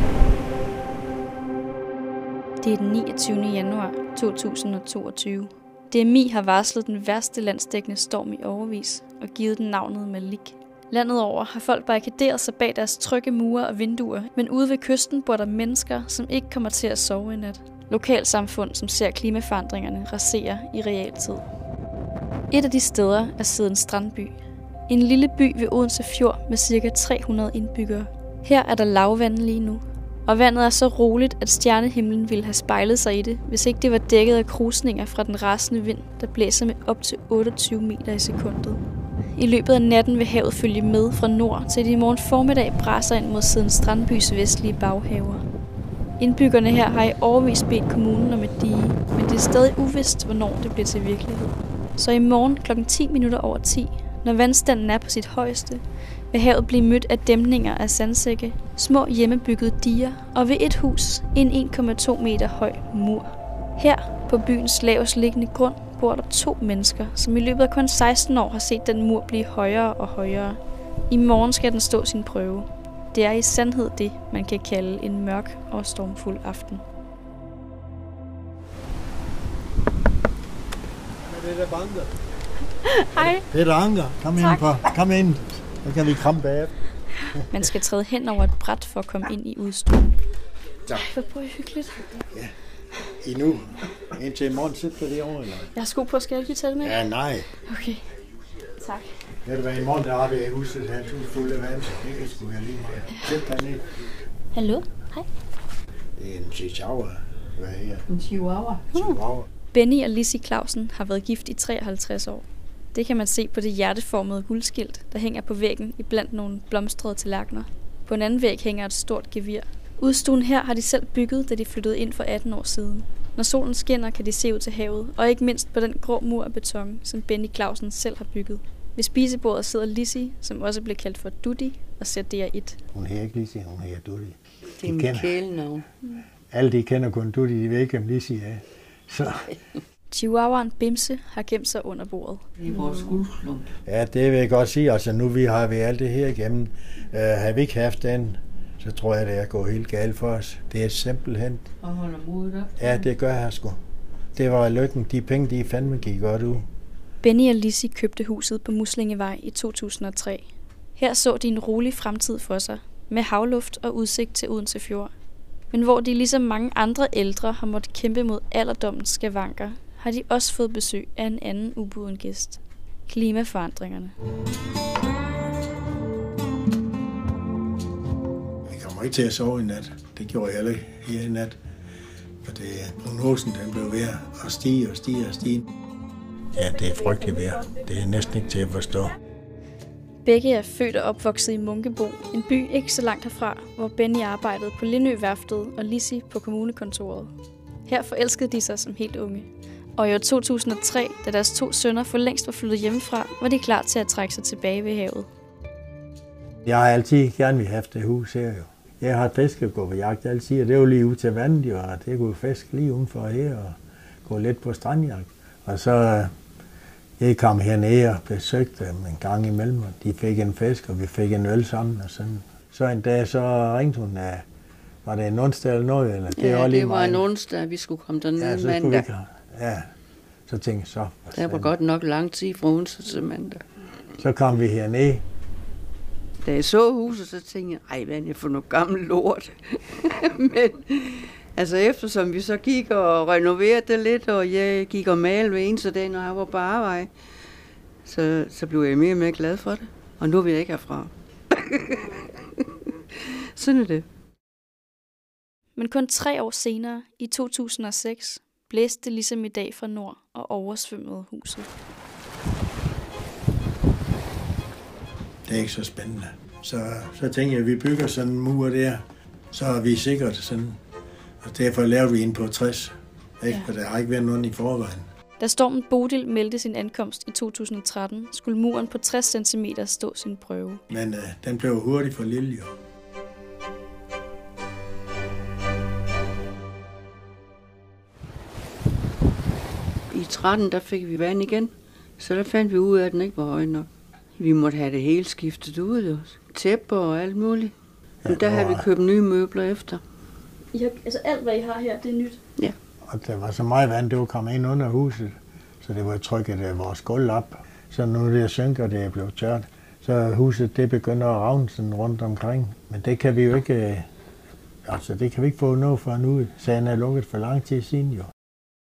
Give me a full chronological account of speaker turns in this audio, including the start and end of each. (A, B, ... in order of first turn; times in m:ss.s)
0:02.6-0:21.5 A
0:22.5-0:24.4 A
0:24.9-0:38.8 A
0:39.3-0:45.4 A
0:46.2-1:16.8 A
1:21.2-1:22.1 B
1:22.8-1:23.4 A
1:23.1-1:26.7 B
1:24.4-1:24.6 A
1:27.3-1:27.6 B
1:27.5-1:30.2 A
1:30.9-1:32.2 A
1:33.2-1:35.7 B
1:35.7-1:38.0 A
1:36.8-1:37.5 B
1:38.8-1:39.1 A
1:39.4-1:43.9 B
1:44.5-1:45.3 A
1:46.2-1:48.1 B
1:48.1-1:48.9 C
1:48.9-1:49.2 A
1:48.9-1:49.5 B
1:49.7-2:12.8 A
2:12.9-2:15.3 B
2:14.8-2:15.9 C
2:16.5-2:19.6 B
2:20.1-2:22.5 A
2:22.6-2:23.7 C
2:23.9-2:31.7 B
2:31.8-2:33.0 C
2:32.8-2:33.8 B
2:34.3-2:36.7 B
2:37.2-2:45.1 A
2:45.7-2:54.1 A
2:58.6-3:01.6 B
3:02.4-3:05.7 B
3:06.5-3:09.2 B
3:10.2-3:17.3 A
3:17.9-3:25.3 A
3:26.6-3:36.3 B
3:37.2-3:44.5 B
3:45.0-3:47.3 B
3:46.4-3:49.1 C
3:48.4-3:49.9 B
3:50.5-3:51.7 B
3:51.3-3:53.6 C
3:54.2-3:55.2 B
3:56.4-4:07.1 C
4:08.0-4:12.6 C
4:13.2-4:14.1 C
4:15.8-4:21.7 A
4:25.4-4:30.8 B
4:31.4-4:35.1 B
4:35.4-4:40.8 A
4:40.9-4:42.7 B
4:50.1-4:57.7 C
4:58.2-4:58.9 B
4:58.2-5:00.0 C
5:00.7-5:02.4 A
5:03.0-5:14.1 B
5:14.8-5:18.3 B